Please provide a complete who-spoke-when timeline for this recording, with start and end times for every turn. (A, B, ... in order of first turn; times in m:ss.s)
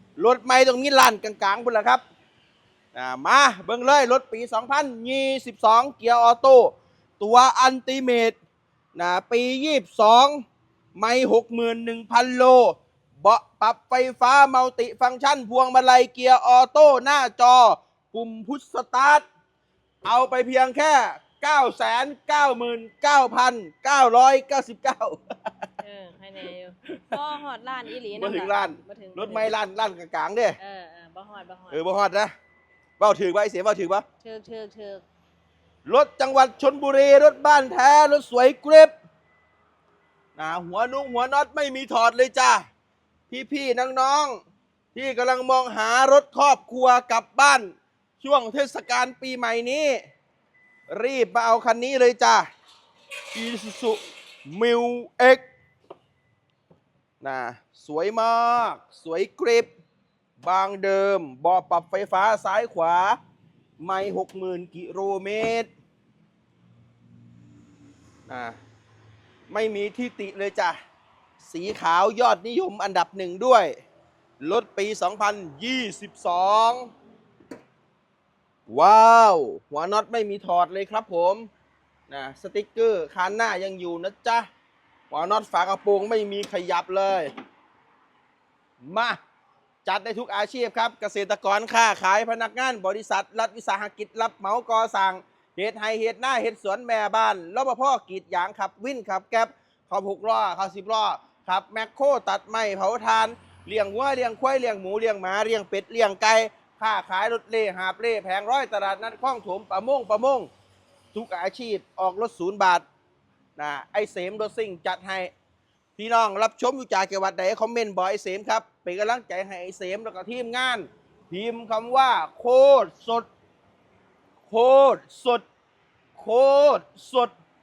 0:00.2-0:02.0 A
0:03.0-0:08.4 A
0:09.0-0:10.4 A
0:11.0-0:19.2 A
0:20.0-0:25.2 A
0:25.8-0:29.5 B
0:28.2-0:30.6 A
0:30.6-0:31.8 B
0:31.7-0:32.3 A
0:33.0-0:34.0 A
0:34.2-0:35.0 B
0:35.8-0:38.9 A
0:40.4-0:42.7 A
0:43.3-0:44.4 A
0:44.9-0:50.0 A
0:50.9-0:52.5 A
0:53.3-0:55.4 A
0:57.2-0:59.7 A
1:00.4-1:03.2 A
1:03.8-1:05.7 A
1:08.3-1:08.6 A
1:09.5-1:10.8 A
1:11.4-1:13.7 A
1:14.4-1:16.9 A
1:18.7-1:21.5 A
1:22.1-1:24.5 A
1:25.1-1:27.3 A
1:28.8-1:29.2 A
1:29.8-1:50.5 A
1:51.1-1:52.8 A
1:53.6-1:55.3 A
1:56.0-2:03.3 A
2:04.5-2:05.4 A
2:06.2-2:07.3 A